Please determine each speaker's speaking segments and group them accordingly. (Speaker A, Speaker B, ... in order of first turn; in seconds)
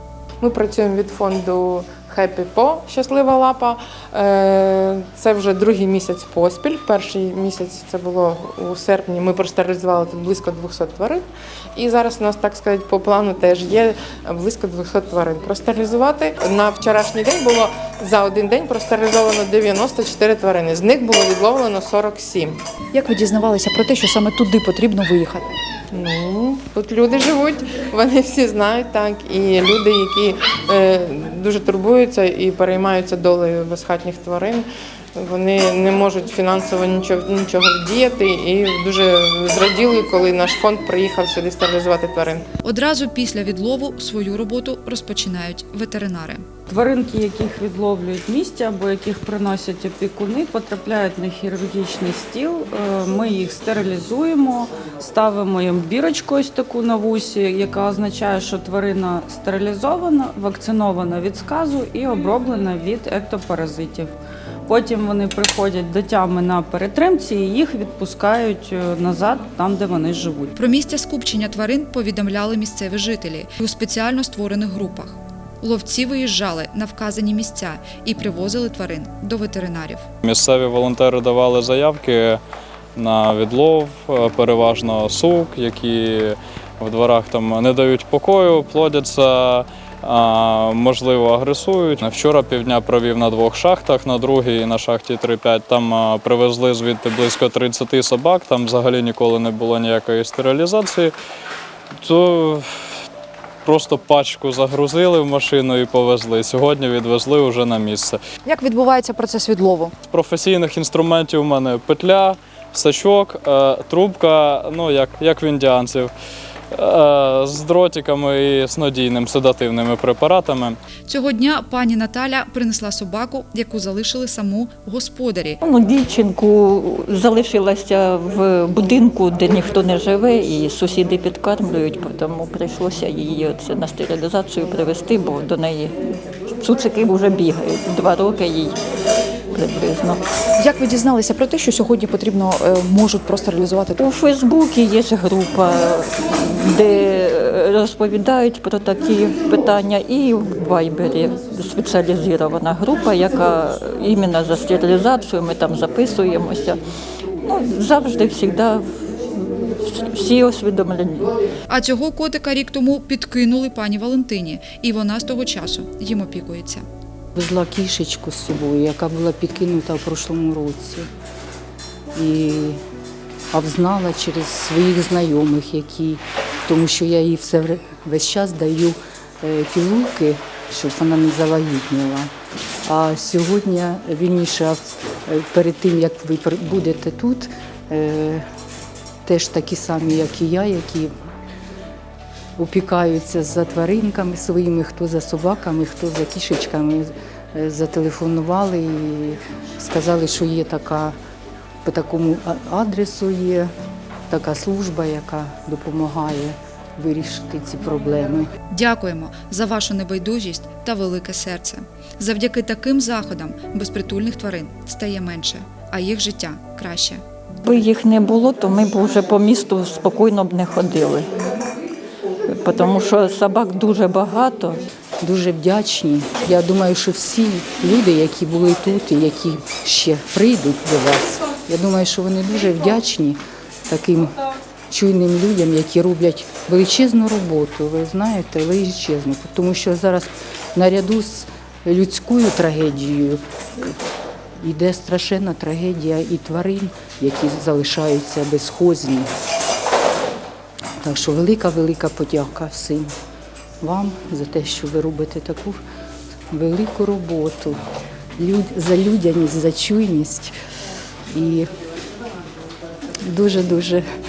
Speaker A: 0.4-11.2, 11.8-22.6, 25.9-42.4
Speaker B: 22.9-25.5, 108.4-109.9, 140.6-144.0
Speaker C: 42.6-46.4, 70.5-80.1, 121.1-125.6, 161.7-166.8, 208.7-217.2
Speaker D: 46.7-64.1, 64.7-70.5
Speaker E: 80.2-82.4, 83.0-101.1, 102.0-102.7, 103.6-108.2, 110.1-116.1, 116.7-120.8
Speaker F: 125.6-135.9, 136.6-138.8, 139.5-140.2, 144.0-156.8, 157.4-161.3, 217.6-221.3, 222.5-224.8
Speaker G: 167.3-171.1, 172.1-172.8, 173.5-182.3, 182.8-188.4, 189.2-191.1, 192.6-201.2, 201.8-203.7, 204.3-208.5, 225.2-234.3, 234.9-243.9, 244.6-249.3, 251.0-253.1, 253.8-255.8, 256.5-257.8, 258.4-260.5, 261.3-261.7, 263.2-264.0